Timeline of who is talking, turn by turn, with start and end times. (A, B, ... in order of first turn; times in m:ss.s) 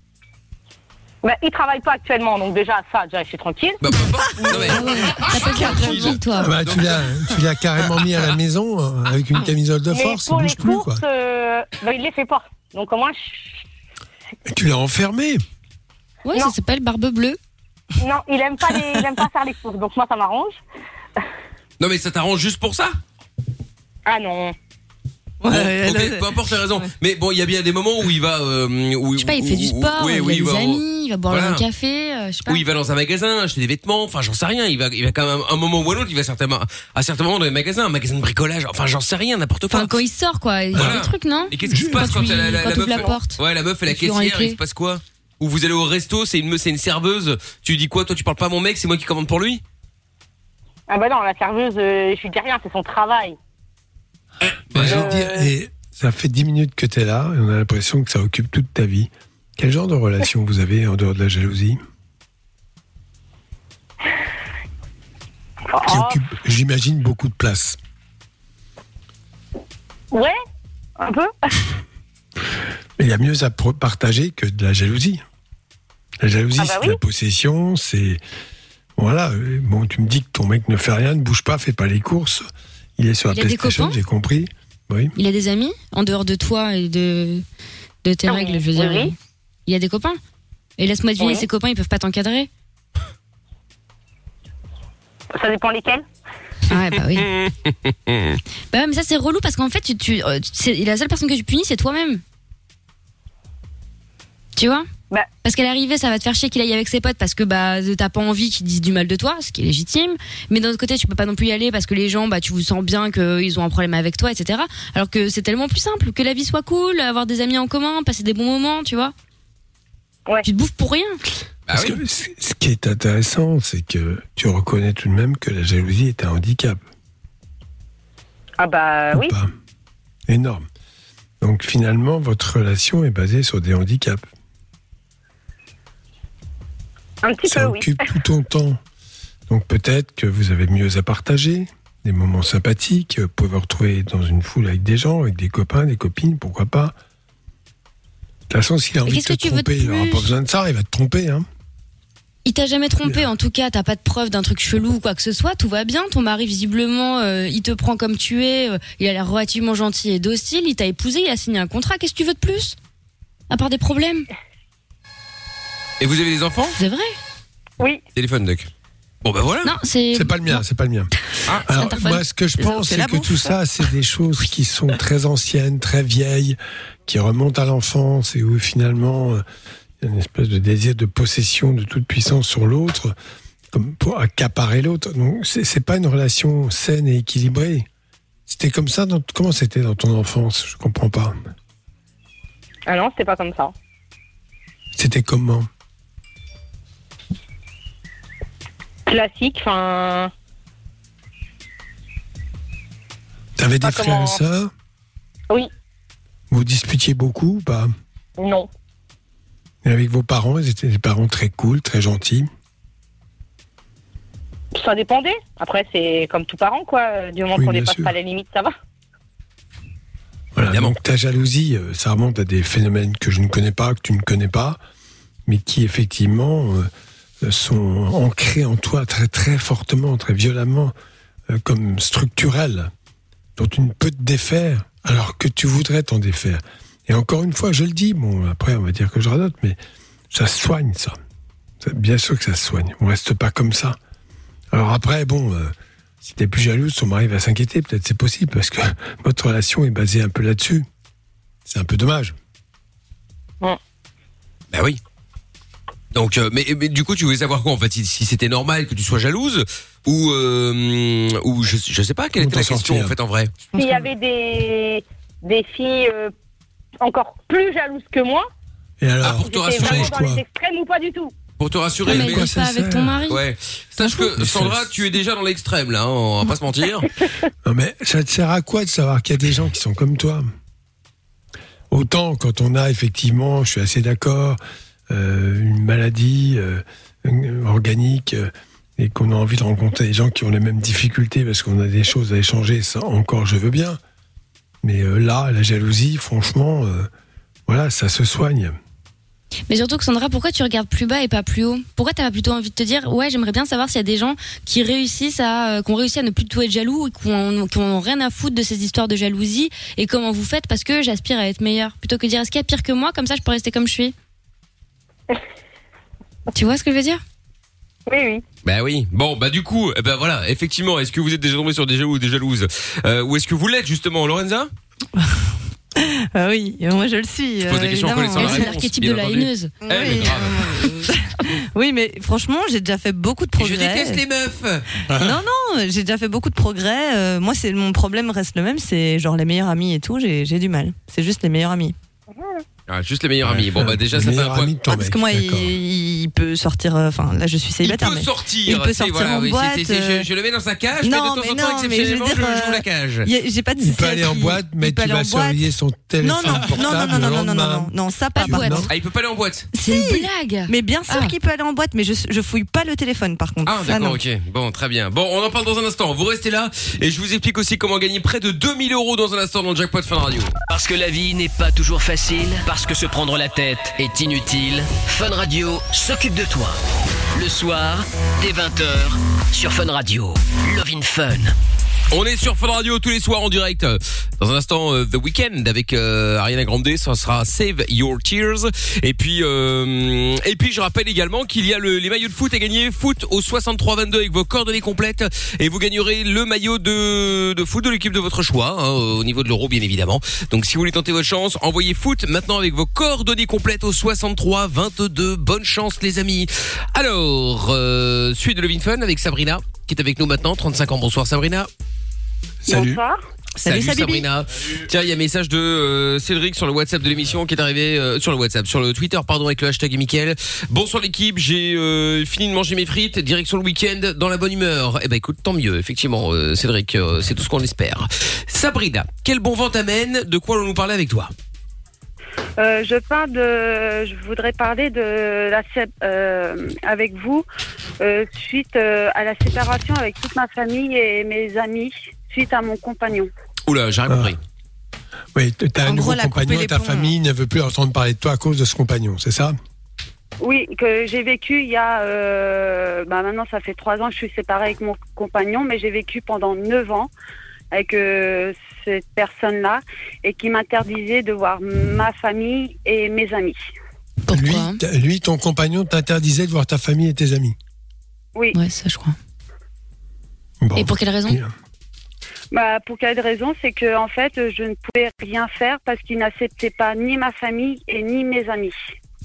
0:01.2-0:03.8 A
0:03.8-0:07.3 B
0:04.4-0:06.2 C
0:04.8-0:06.6 D
0:06.4-0:11.0 E
0:09.9-0:13.6 A
0:14.5-0:15.4 E
0:16.2-0:17.4 D
0:18.0-0:20.6 A
0:21.8-0:23.0 B
0:24.1-0:24.6 A
0:25.4-0:26.9 C
0:25.5-0:31.6 B
0:29.2-0:32.6 D
0:32.5-0:39.9 B
0:39.7-0:44.6 D
0:40.7-0:49.6 B
0:40.7-0:41.0 E
0:41.7-0:42.3 E
0:50.9-0:53.4 A
0:54.7-1:01.8 E
0:54.8-0:55.1 B
0:54.8-0:55.5 A
1:05.7-1:06.2 A
1:05.8-1:07.8 E
1:10.1-1:10.4 A
1:11.0-1:11.6 A
1:13.0-1:15.2 E
1:16.2-1:18.2 E
1:16.6-1:17.0 A
1:19.0-1:22.4 E
1:23.0-1:25.1 E
1:23.3-1:24.0 D
1:25.2-1:27.4 D
1:28.0-1:30.2 D
1:28.3-1:29.1 A
1:30.8-1:32.5 D
1:31.2-1:31.5 A
1:35.4-1:36.0 A
1:36.7-1:37.3 D
1:38.1-1:38.4 B
1:38.7-1:42.2 D
1:44.6-1:44.9 D
1:45.4-1:59.1 D
2:00.4-2:01.2 D
2:01.7-2:02.0 B
2:01.7-2:06.8 E
2:08.6-2:09.3 A
2:09.1-2:09.5 E
2:10.3-2:10.7 E
2:11.4-2:14.2 E
2:17.2-2:18.0 A
2:17.5-2:18.8 E
2:19.5-2:27.0 E
2:28.5-2:31.5 E
2:29.1-2:30.3 D
2:32.4-2:42.8 D
2:43.5-2:44.3 D
2:46.0-2:46.8 B
2:46.8-2:47.2 D
2:48.2-2:48.7 B
2:49.2-2:49.7 B
2:49.6-2:50.6 D
2:50.1-2:51.1 E
2:51.6-2:59.4 E
2:51.7-2:52.2 D
2:52.6-2:53.6 C
3:00.0-3:03.1 E
3:03.7-3:07.9 E
3:08.5-3:11.4 E
3:12.9-3:13.7 A
3:14.9-3:15.7 E
3:19.1-3:20.3 A
3:23.6-3:24.7 E
3:23.8-3:24.4 A
3:26.5-3:27.9 E
3:28.4-3:28.7 A
3:29.8-3:32.5 E
3:34.8-3:38.7 A
3:37.6-3:38.1 E
3:40.6-3:44.8 E
3:40.7-3:40.9 B
3:45.5-3:46.9 E
3:47.4-3:50.9 E
3:51.5-3:52.9 E
3:53.6-3:59.8 E
4:00.3-4:01.2 E
4:01.8-4:04.0 E
4:04.7-4:10.9 E
4:11.7-4:12.4 E
4:14.7-4:15.0 B
4:16.1-4:23.6 B
4:22.4-4:23.2 E
4:23.8-4:26.3 A
4:27.0-4:28.5 A
4:29.0-4:30.4 E
4:29.2-4:30.2 B
4:29.3-4:31.3 A
4:31.6-4:32.5 B
4:32.0-4:33.4 D
4:32.1-4:33.3 E
4:33.3-4:37.1 B
4:34.4-4:35.0 E
4:37.6-4:40.5 E
4:41.9-4:44.6 E
4:45.1-4:54.0 E
4:54.8-4:57.1 E
4:57.7-4:58.8 E
4:59.7-5:14.1 D
5:16.5-5:17.2 D
5:18.1-5:18.4 A
5:18.6-5:24.7 B
5:25.2-5:28.7 C
5:27.6-5:30.9 B
5:28.0-5:30.3 D
5:29.8-5:34.2 C
5:33.6-5:34.9 B
5:35.2-5:42.0 C
5:42.9-5:44.7 B
5:43.4-5:45.8 E
5:44.9-5:50.3 C
5:47.8-5:53.3 B
5:51.0-5:55.7 C
5:53.8-5:58.9 E
5:56.2-5:58.9 C
5:58.4-5:58.9 D
5:58.9-5:59.7 B
5:59.7-6:04.2 C
5:59.8-6:01.3 D
6:03.7-6:10.5 B
6:10.7-6:16.8 F
6:17.3-6:21.5 F
6:22.1-6:51.7 B
6:52.6-6:53.0 E
6:52.7-6:53.2 G
6:53.6-6:54.3 C
6:53.6-7:11.3 B
7:12.6-7:17.5 G
7:18.0-7:23.3 G
7:23.7-7:24.4 B
7:24.1-7:24.3 E
7:25.4-7:29.6 E
7:25.8-7:27.1 C
7:30.4-7:37.1 G
7:37.7-7:43.6 G
7:44.3-7:44.8 D
7:44.3-7:47.6 E
7:48.5-7:49.2 D
7:50.6-7:51.5 E
7:50.8-7:51.4 D
7:52.5-7:58.8 G